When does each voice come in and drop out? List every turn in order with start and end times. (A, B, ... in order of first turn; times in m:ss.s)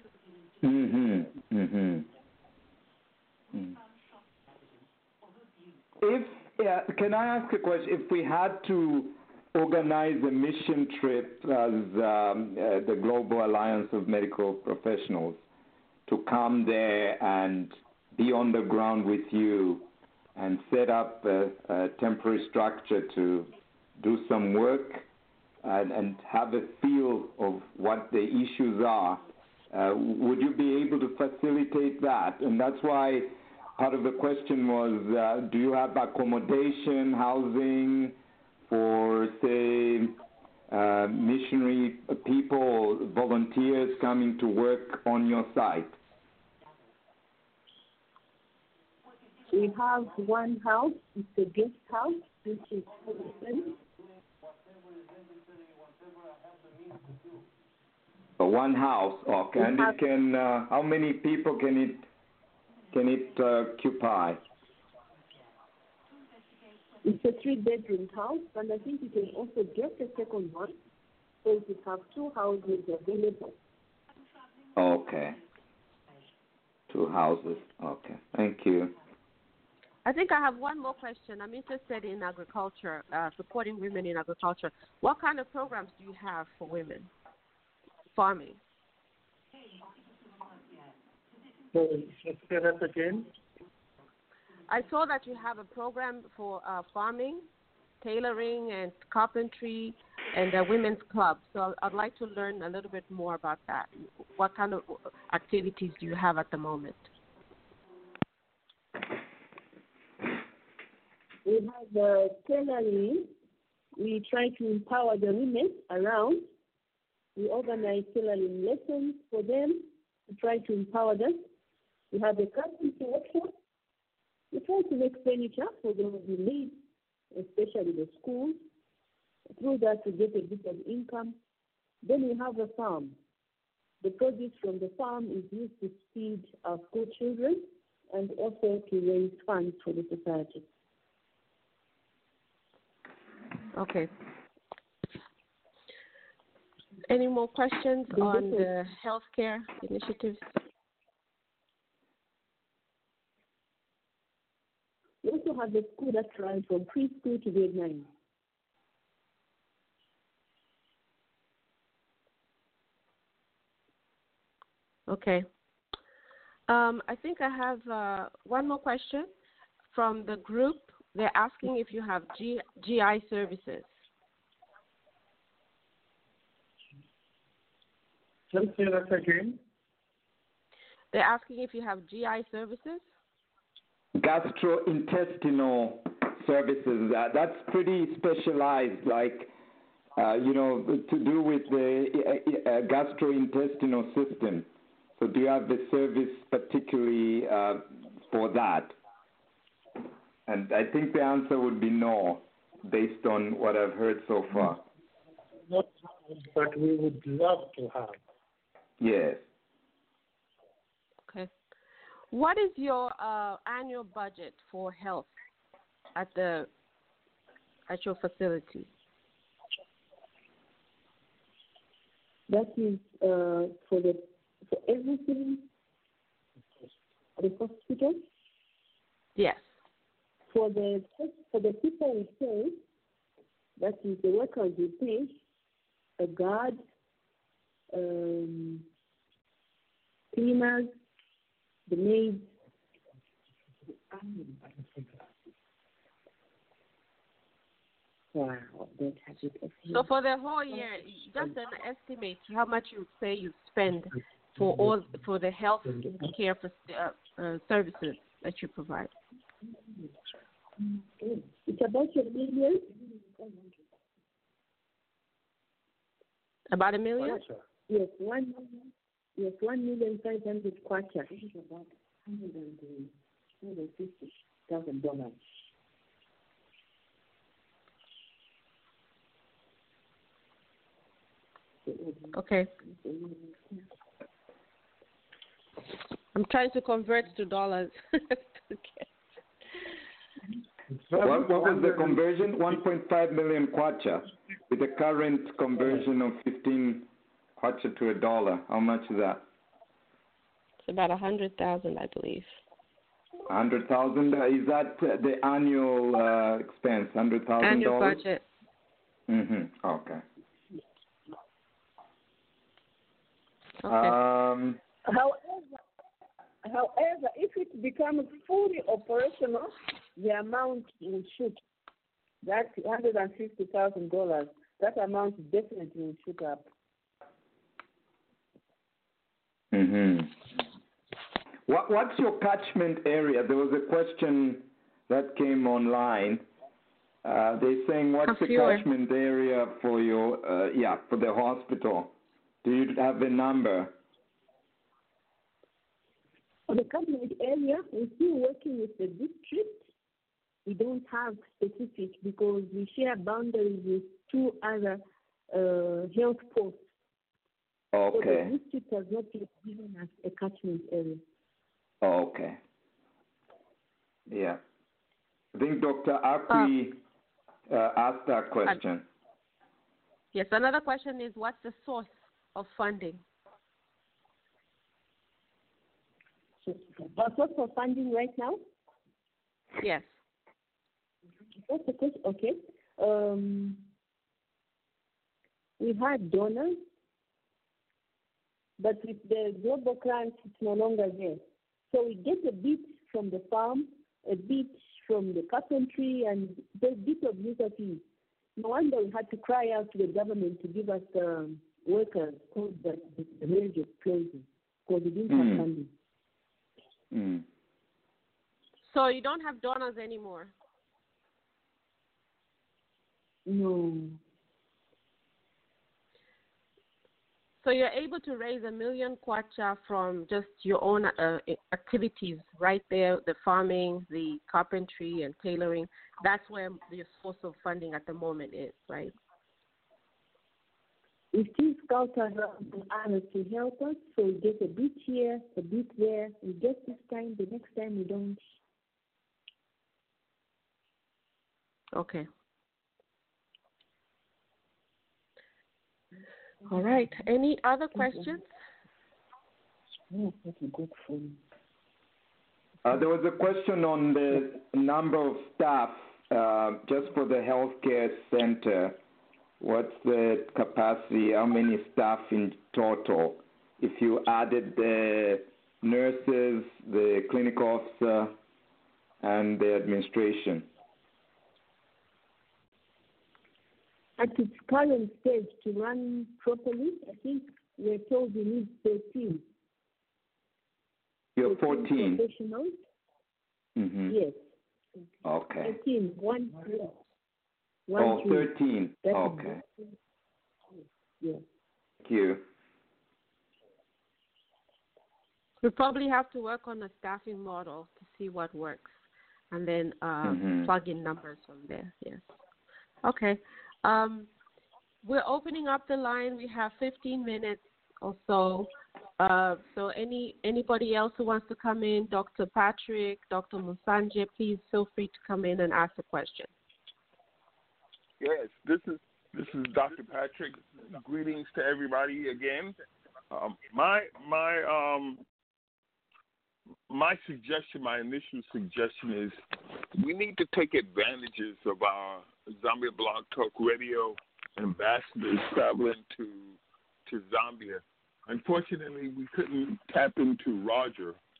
0:00.6-0:02.1 A
0:03.5-0:03.8 A
0:06.0-0:15.4 A
0:16.1-0:25.1 A
0:25.6-0:38.2 A
0:38.7-0:40.2 A
0:40.7-0:46.0 A
0:49.5-0:53.7 B
0:58.4-1:02.1 A
0:59.6-0:59.9 B
1:02.9-1:04.4 A
1:07.0-1:10.8 B
1:11.4-1:13.5 B
1:14.8-1:15.4 A
1:16.9-1:18.9 A
1:20.0-1:27.1 C
1:28.1-1:28.6 C
1:31.7-1:33.3 D
1:34.7-1:37.5 C
1:38.0-1:47.1 C
1:51.4-1:53.3 B
1:54.0-1:56.4 B
1:57.4-2:01.4 B
2:02.1-2:03.5 B
2:04.5-2:06.8 B
2:07.3-2:08.6 B
2:09.5-2:11.4 B
2:12.0-2:13.2 B
2:14.0-2:20.6 B
2:23.7-2:24.1 C
2:27.1-2:30.4 C
2:28.1-2:28.7 B
2:35.2-2:38.1 B
2:45.1-2:45.5 C
2:46.7-2:49.3 C
2:49.9-2:53.9 C
2:58.5-2:59.6 D
3:01.1-3:03.0 C
3:04.2-3:09.5 A
3:10.2-3:14.7 A
3:15.2-3:19.0 A
3:20.5-3:24.8 A
3:25.6-3:28.2 D
3:29.0-3:29.4 A
3:32.3-3:35.3 C
3:36.2-3:36.7 C
3:37.9-3:38.9 C
3:42.5-3:45.6 B
3:47.4-3:48.2 B
3:49.4-3:49.7 C
3:50.5-3:52.8 B
3:53.8-3:55.4 B
3:56.2-3:56.8 B
3:57.9-3:58.8 B
4:00.3-4:00.9 B
4:01.9-4:02.4 B
4:04.1-4:04.6 B
4:08.3-4:09.3 E
4:08.7-4:10.0 B
4:09.9-4:19.1 C
4:14.6-4:15.0 D
4:15.9-4:16.2 D
4:19.7-4:20.1 B
4:20.8-4:23.8 B
4:26.7-4:27.4 C
4:27.3-4:27.6 D
4:27.9-4:33.1 B
4:33.6-4:35.1 B
4:34.7-4:35.4 E
4:41.9-4:42.3 B
4:42.3-4:42.7 C
4:42.9-4:43.8 B
4:46.4-4:49.0 C
4:50.9-4:52.2 D
4:51.2-4:59.4 A
5:00.9-5:02.5 C
5:03.5-5:08.2 A
5:07.6-5:08.4 C
5:09.3-5:10.2 A
5:13.8-5:14.2 C
5:13.9-5:14.8 A
5:15.0-5:15.7 E
5:16.6-5:21.6 E
5:22.4-5:26.7 E
5:29.7-5:30.5 A
5:31.7-5:36.4 A
5:37.2-5:42.1 A
5:38.3-5:38.8 C
5:42.6-5:43.9 A
5:46.7-5:49.8 B
5:50.7-5:56.8 B
5:57.9-5:58.5 A
5:58.1-6:01.2 B
6:02.0-6:02.6 A
6:04.3-6:04.6 A
6:05.5-6:07.0 A
6:07.7-6:09.0 A
6:10.3-6:13.2 C
6:16.6-6:18.6 B
6:19.8-6:20.1 C
6:21.7-6:23.8 B
6:25.8-6:26.8 B
6:28.8-6:38.0 B
6:38.6-6:45.9 B
6:45.3-6:45.7 A
6:47.1-6:47.4 A
6:48.8-6:50.5 C
6:53.5-6:54.2 B
6:57.6-7:09.1 C
7:11.3-7:18.4 B
7:22.0-7:22.3 C
7:26.7-7:28.5 C
7:30.1-7:31.4 B
7:32.8-7:39.0 A
7:39.6-7:48.4 A
7:49.2-7:50.7 A
7:54.2-7:59.4 B
8:01.4-8:02.2 A
8:01.4-8:02.8 B
8:03.8-8:04.2 A
8:04.1-8:04.4 B
8:05.2-8:05.8 A
8:05.6-8:07.0 B
8:07.9-8:08.5 B
8:08.0-8:09.6 A
8:09.0-8:09.9 B
8:12.0-8:12.4 A
8:15.6-8:19.0 C
8:19.5-8:22.3 C
8:20.2-8:20.7 A
8:23.0-8:24.3 C
8:25.0-8:36.5 C
8:38.2-8:42.8 F
8:43.3-8:45.2 F
8:46.9-8:49.4 F
8:50.0-9:01.2 F